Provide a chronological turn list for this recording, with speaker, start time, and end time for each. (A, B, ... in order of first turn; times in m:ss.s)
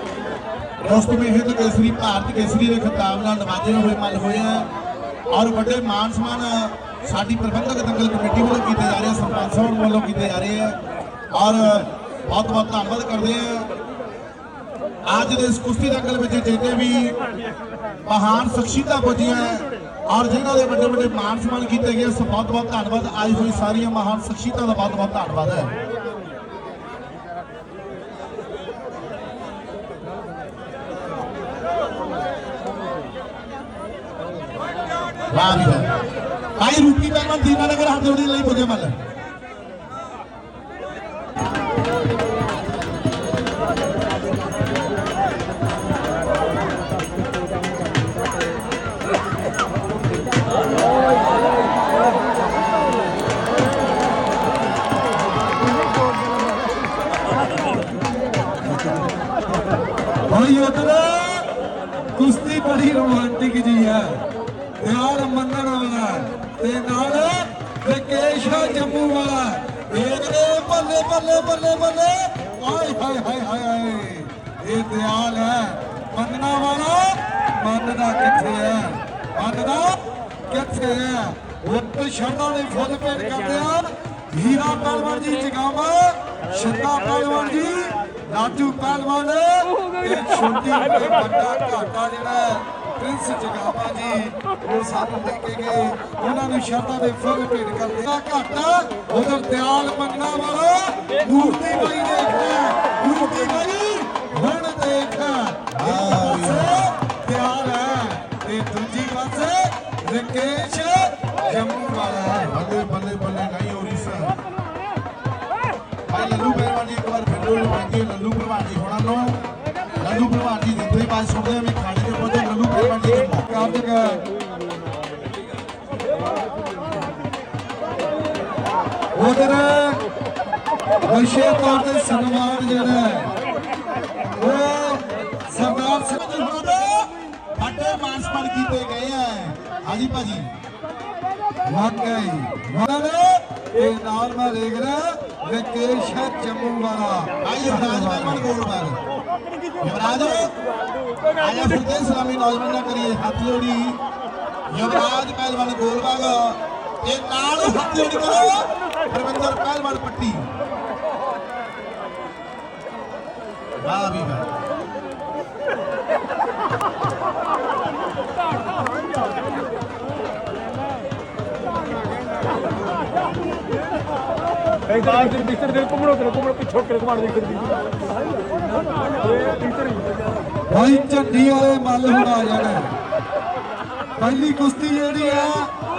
0:00.8-0:04.7 A
0:05.3-0:10.8 A
0:11.3-0:13.7 A
0:15.0-0:17.2 A
0:18.0-0:25.7 A
0:35.3-0:35.9 A
0:36.6-0:39.0 A
1:00.3-1:01.5 B
1:02.1-1:04.2 B
1:04.8-1:52.5 B
1:45.7-1:46.8 A
1:52.4-1:54.4 A
1:56.1-1:59.4 A
2:00.0-2:03.5 A
2:03.4-2:04.2 B
2:09.1-2:10.0 B
2:11.0-2:13.3 B
2:14.4-2:17.1 B
2:17.6-2:20.4 A
2:21.6-2:28.5 B
2:27.4-2:29.0 A
2:29.8-2:30.5 A
2:31.3-2:34.0 A
2:34.7-2:40.4 A
2:43.8-2:44.5 A
2:55.1-2:57.6 C
3:00.7-3:03.0 B
3:04.2-3:05.7 B